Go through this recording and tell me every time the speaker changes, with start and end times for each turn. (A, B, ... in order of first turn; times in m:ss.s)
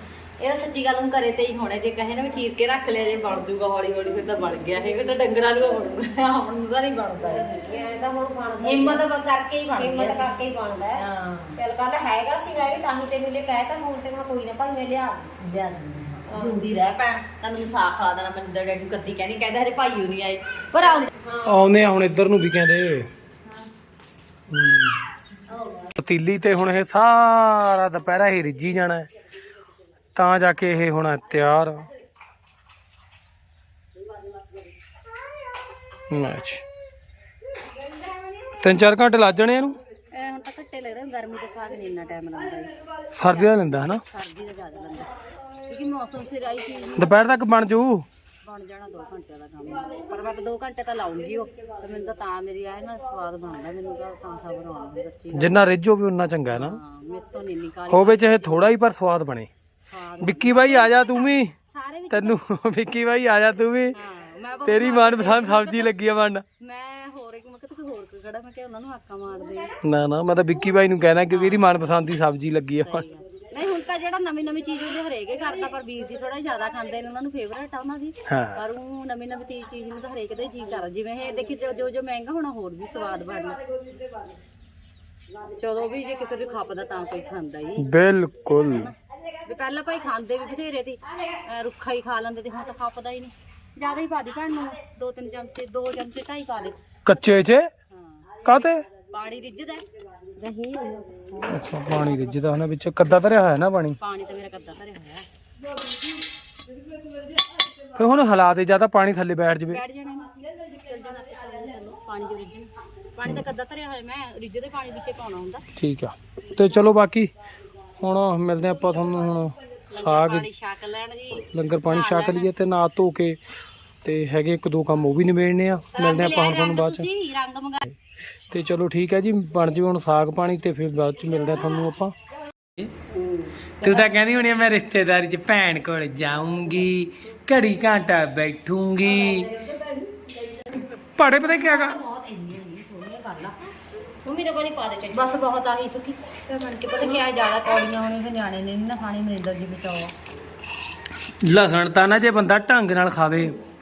0:00.4-0:07.5 A
0:07.3-0:09.0 B
0:08.6-0:10.3 A
0:09.8-0:11.0 B
0:10.9-0:11.6 A
0:11.6-0:15.3 B
0:15.4-0:21.1 A
0:16.3-0:16.6 B
0:20.8-0:21.8 B
0:21.4-0:23.1 C
0:24.5-0:25.0 C
0:25.5-0:25.9 A
0:26.0-0:29.1 C
0:30.1-0:31.9 C
0:36.1-0:36.6 C
0:38.6-0:39.8 C
0:40.1-0:43.5 A
0:43.2-0:44.0 C
0:44.0-0:45.1 A
0:45.7-0:47.2 A
0:47.0-0:48.0 C
0:48.4-0:55.6 A
0:55.3-0:56.8 C
0:56.5-0:58.6 A
0:57.9-0:59.5 C
0:59.8-1:02.4 A
1:00.2-1:01.5 C
1:02.1-1:04.0 C
1:03.9-1:05.9 A
1:04.6-1:06.4 C
1:06.6-1:09.7 A
1:09.8-1:13.0 C
1:11.3-1:11.7 A
1:12.8-1:23.6 A
1:18.3-1:18.6 C
1:25.6-1:27.9 A
1:27.8-1:28.9 C
1:28.5-1:36.8 A
1:37.0-1:37.7 C
1:37.9-1:38.3 A
1:38.4-1:38.8 C
1:39.1-1:39.8 A
1:40.4-1:41.8 B
1:41.5-1:44.0 C
1:41.9-1:42.6 A
1:44.0-1:45.2 A
1:47.9-1:49.8 C
1:49.7-1:55.6 A
1:55.8-1:57.3 C
1:58.0-2:00.5 C
1:59.9-2:02.5 A
2:01.5-2:03.4 C
2:04.0-2:07.1 C
2:05.9-2:07.9 A
2:08.5-2:12.1 C
2:13.1-2:14.1 B
2:13.8-2:19.5 C
2:19.4-2:19.7 B
2:21.1-2:22.0 C
2:21.4-2:23.7 A
2:24.2-2:25.4 B
2:25.1-2:30.1 A
2:31.4-2:33.5 C